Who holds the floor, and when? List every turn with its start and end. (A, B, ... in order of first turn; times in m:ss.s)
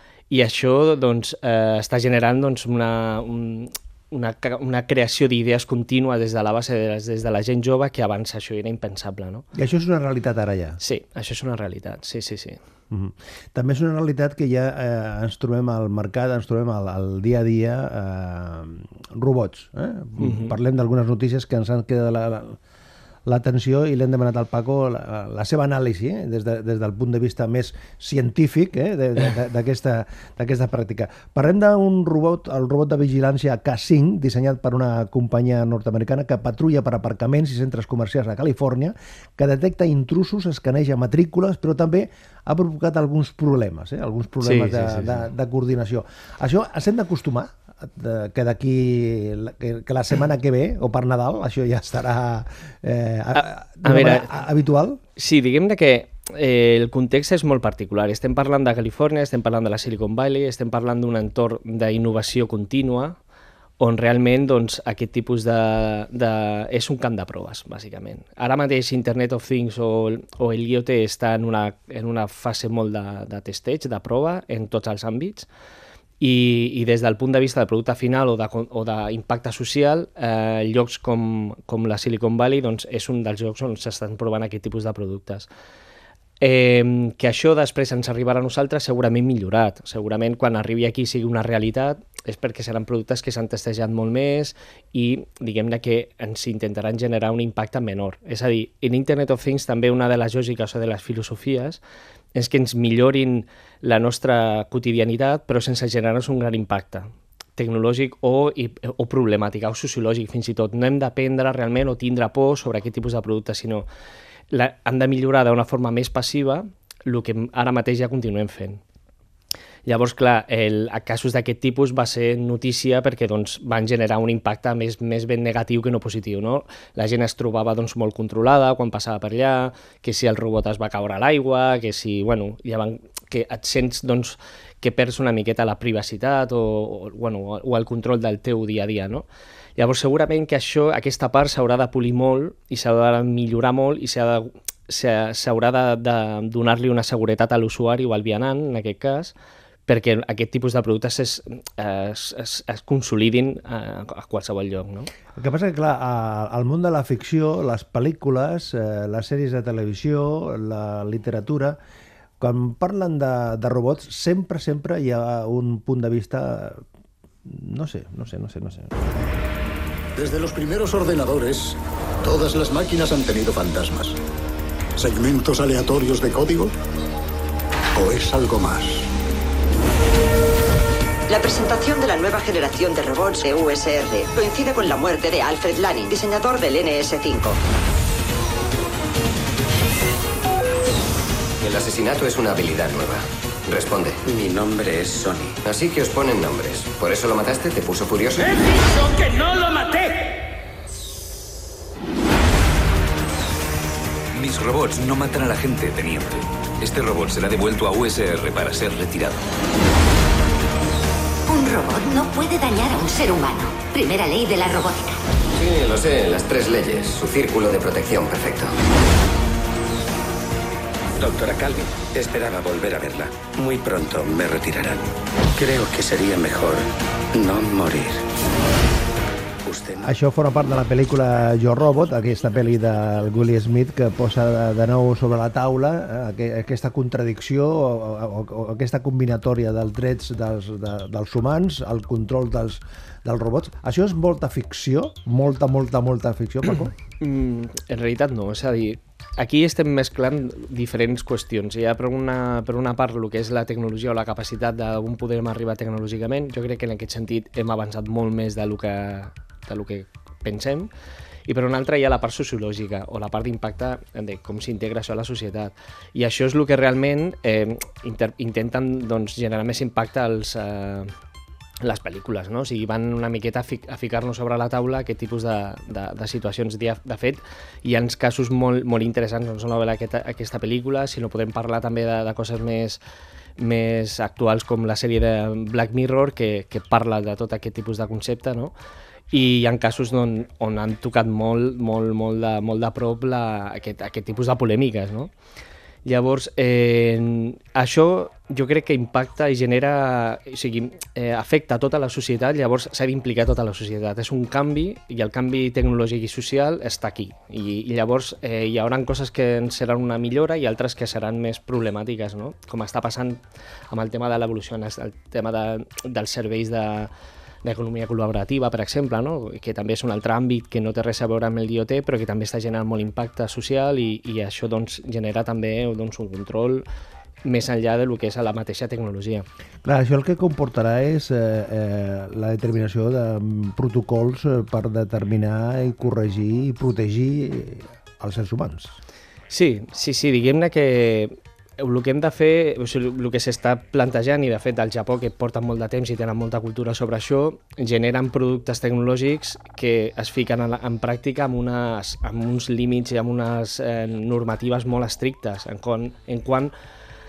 0:00.3-0:09.4 A
0:09.5-0:10.8 B
0:10.8-0:12.6 A
0:12.9-0:22.6 B
0:20.2-0:20.5 A
0:23.2-0:55.0 B
0:44.4-0:45.3 A
0:53.4-0:54.3 A
0:55.2-1:03.2 A
1:03.8-1:15.5 A
1:16.2-1:25.5 A
1:26.4-1:41.8 A
1:42.3-1:53.9 A
1:54.5-1:58.8 A
1:59.9-2:29.3 A
2:29.9-2:35.1 A
2:35.4-2:41.8 B
2:42.4-2:46.8 B
2:47.4-2:49.2 B
2:50.2-2:54.2 C
2:55.0-2:56.7 C
2:58.0-2:59.1 C
3:01.3-3:07.6 D
3:11.6-3:14.2 E
3:15.6-3:18.6 E
3:24.4-3:29.4 F
3:31.5-3:35.2 G
3:35.6-3:38.7 E
3:50.0-4:07.0 B
4:07.2-4:20.9 A
4:21.5-4:31.1 A
4:31.8-4:43.0 A
4:43.6-4:48.7 A
4:49.3-4:55.3 A
4:56.0-5:17.1 A
5:17.6-5:26.9 A
5:27.4-5:29.5 A
5:29.8-5:39.0 B
5:39.5-5:56.7 A